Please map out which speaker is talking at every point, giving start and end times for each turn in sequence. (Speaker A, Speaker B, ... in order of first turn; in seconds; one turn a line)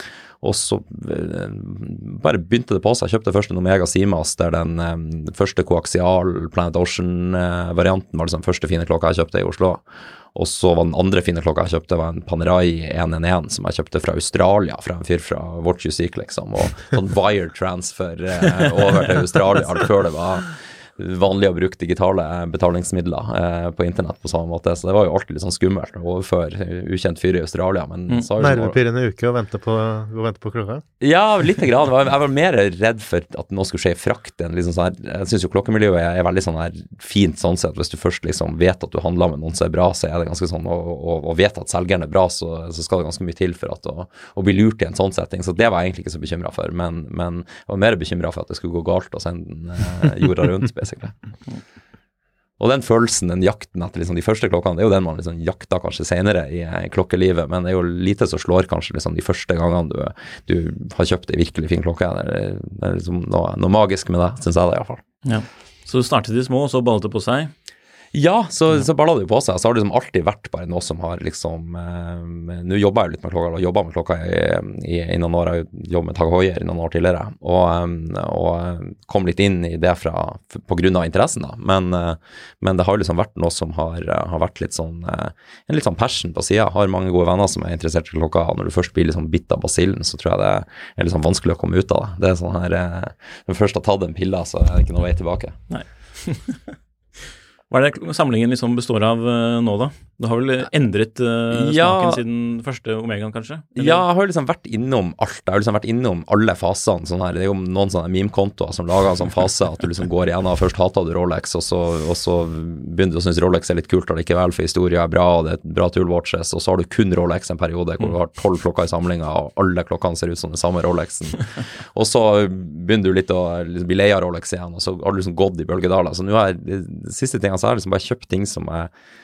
Speaker A: 0.4-28.8
Speaker B: 28.4-30.8
Speaker A: 31.0-51.1
Speaker A: 52.6-65.0
Speaker C: 65.2-67.5
Speaker A: 68.1-95.6
Speaker C: 95.7-96.6
Speaker C: 97.7-104.0
Speaker A: 101.5-102.2
Speaker A: 103.7-128.9